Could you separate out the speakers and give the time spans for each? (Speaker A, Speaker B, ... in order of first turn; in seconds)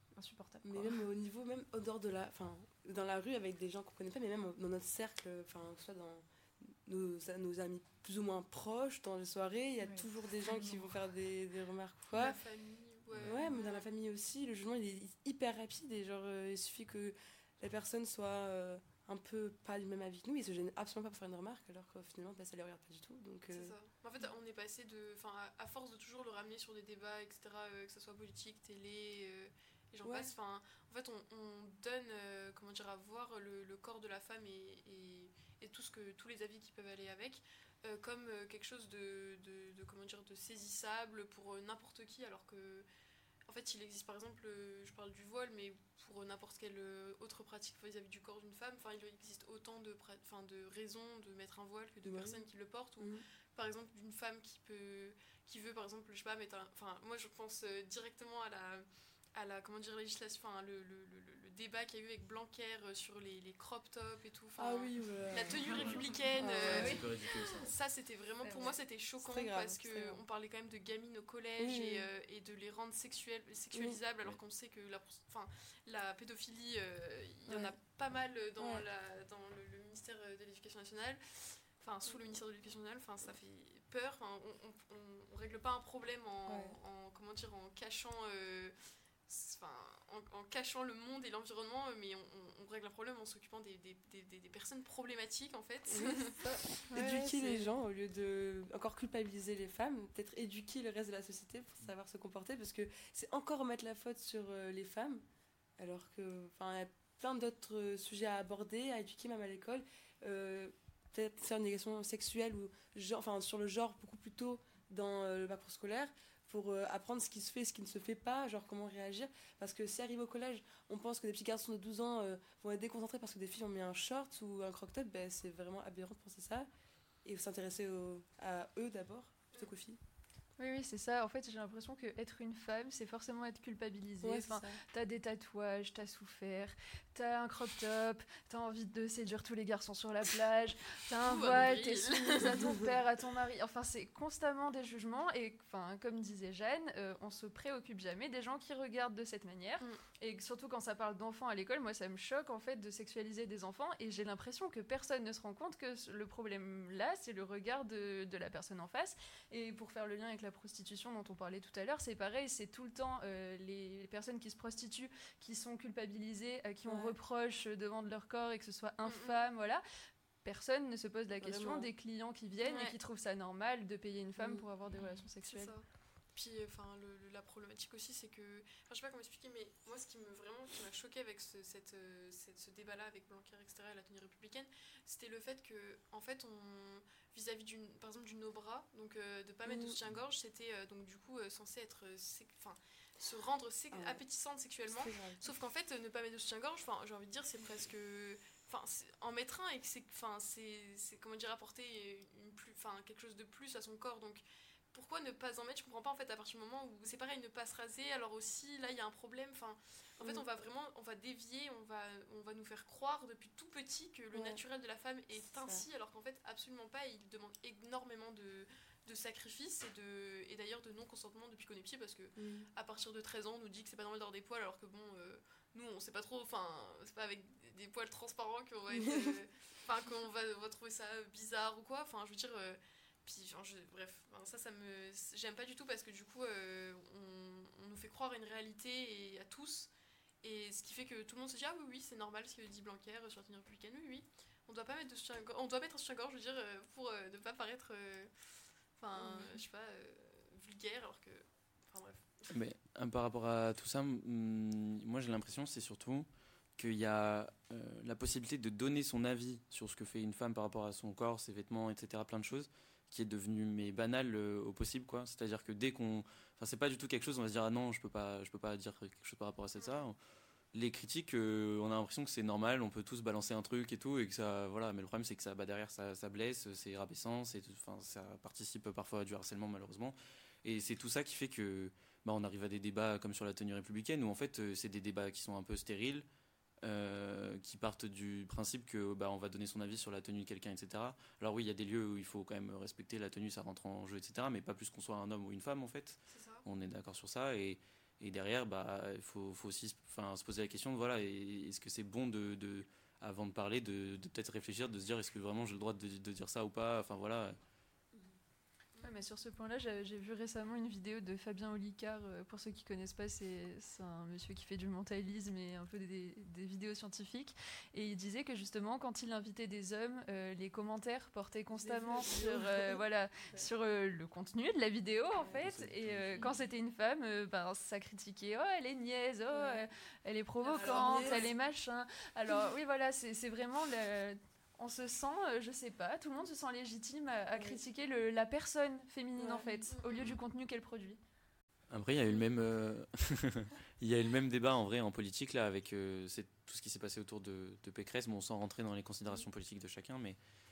Speaker A: 0.1-1.0, 9.8-11.0
Speaker B: 0.6-12.4, 13.2-23.7, 30.0-30.3, 52.0-52.4, 53.0-53.2, 64.5-67.3, 69.2-70.2, 71.6-72.1, 73.7-74.0, 77.5-77.7, 78.6-78.8, 86.5-86.8, 95.9-105.2, 105.8-126.7, 127.2-130.0, 134.2-134.8, 166.8-167.1, 171.4-171.9, 174.4-174.6, 189.7-190.0, 193.9-194.2, 194.9-195.6, 210.2-210.4, 214.3-214.6, 215.4-215.9, 222.3-222.7, 228.9-229.3, 249.2-249.6, 321.7-323.0, 325.4-325.7, 329.5-329.8, 330.7-331.5, 337.5-337.8, 339.4-339.9
Speaker C: 12.1-13.9, 23.5-42.9, 43.5-88.7, 89.3-96.4, 141.2-142.8, 169.0-169.4, 172.6-173.0, 175.4-239.9, 240.4-248.3, 249.0-252.5, 269.8-270.0, 296.3-296.6, 330.8-331.4, 339.9-340.3
Speaker D: 65.7-66.0, 66.6-67.7, 252.5-270.2, 270.7-286.2, 286.8-307.6, 325.6-326.5, 341.9-350.4
Speaker E: 96.9-97.6, 130.6-169.8, 170.4-175.7, 309.0-341.2